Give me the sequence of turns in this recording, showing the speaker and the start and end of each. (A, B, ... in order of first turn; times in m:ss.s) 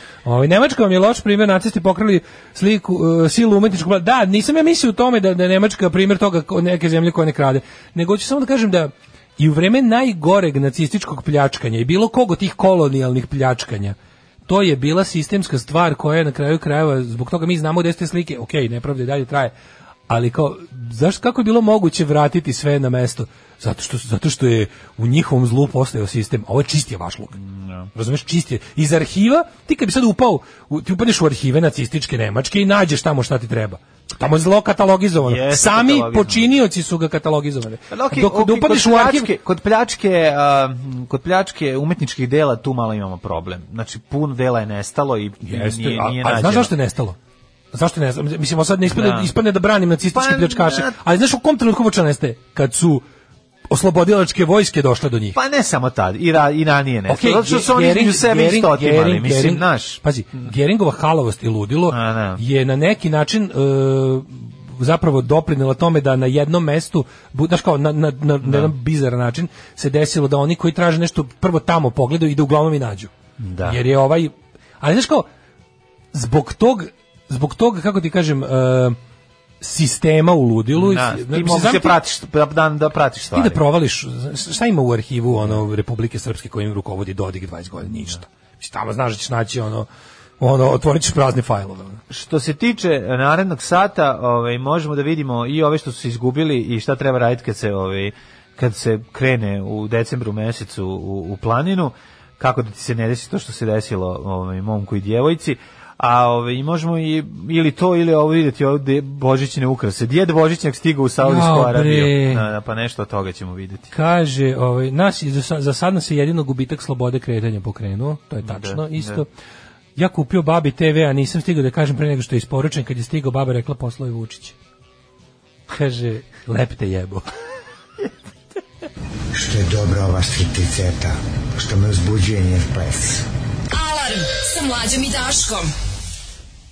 0:00.2-0:14.0 A
0:14.5-0:19.5 A
0:20.1-0:27.4 A
0:27.4-0:27.9 B
0:27.9-0:39.3 A
0:35.2-0:36.5 B
0:37.9-0:46.7 B
0:45.4-0:47.2 A
0:47.7-0:53.0 A
0:48.9-0:49.3 B
0:50.1-0:51.0 B
0:53.7-0:55.4 A
0:55.4-1:00.0 B
0:57.1-1:13.1 A
1:01.9-1:02.4 B
1:08.4-1:08.7 B
1:13.4-1:13.8 B
1:13.6-1:15.3 A
1:16.1-1:19.0 A
1:19.6-1:22.0 A
1:20.7-1:23.6 B
1:23.4-1:29.9 A
1:30.4-1:32.0 A
1:32.1-1:53.9 B
1:51.2-1:52.4 A
1:53.9-1:59.3 A
1:58.4-1:59.2 B
2:00.0-2:04.6 A
2:05.7-2:07.2 A
2:09.3-2:13.3 C
2:13.7-2:15.7 D